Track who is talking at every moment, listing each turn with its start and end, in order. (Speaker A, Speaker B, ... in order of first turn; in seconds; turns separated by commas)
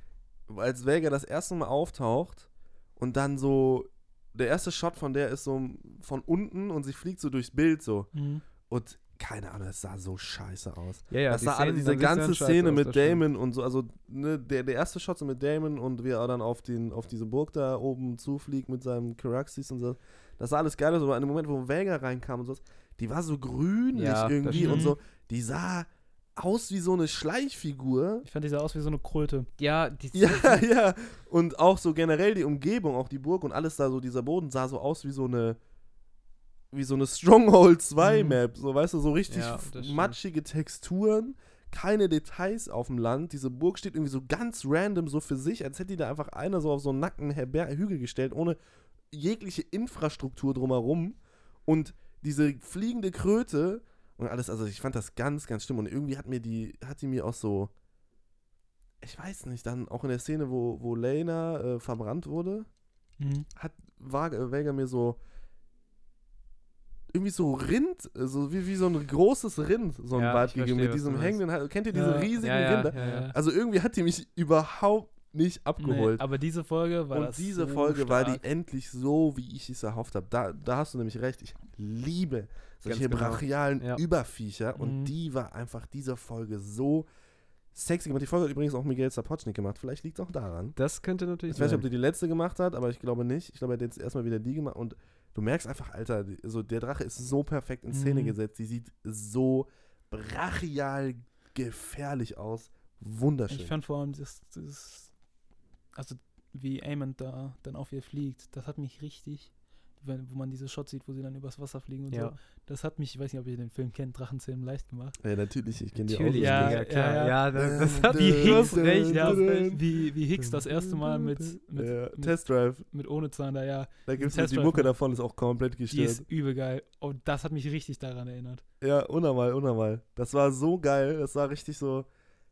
Speaker A: 0.5-28.2, Speaker B: 8.1-8.4, Speaker C: 11.1-13.2, Speaker C: 23.9-24.9, Speaker B: 24.5-24.9, Speaker B: 28.2-29.5, Speaker C: 29.6-30.6, Speaker A: 30.1-35.6, Speaker A: 36.7-48.6, Speaker B: 38.0-38.4, Speaker C: 39.3-40.2, Speaker A: 49.1-57.7, Speaker A: 59.0-62.7, Speaker B: 63.2-63.5, Speaker A: 63.5-65.2, Speaker A: 67.1-76.2, Speaker C: 70.1-71.4, Speaker B: 71.9-73.3, Speaker C: 72.4-73.3, Speaker B: 75.8-78.4, Speaker A: 77.1-87.1, Speaker B: 82.8-83.4, Speaker B: 84.8-85.1, Speaker A: 87.7-90.8, Speaker C: 90.8-91.9, Speaker A: 91.5-103.7, Speaker B: 97.9-98.4, Speaker B: 103.5-105.2, Speaker B: 105.9-115.2, Speaker C: 112.1-112.3, Speaker A: 115.2-116.9, Speaker C: 116.1-119.8, Speaker B: 116.3-124.9, Speaker A: 117.5-122.8, Speaker A: 124.0-126.2, Speaker B: 125.9-128.6, Speaker A: 128.8-132.1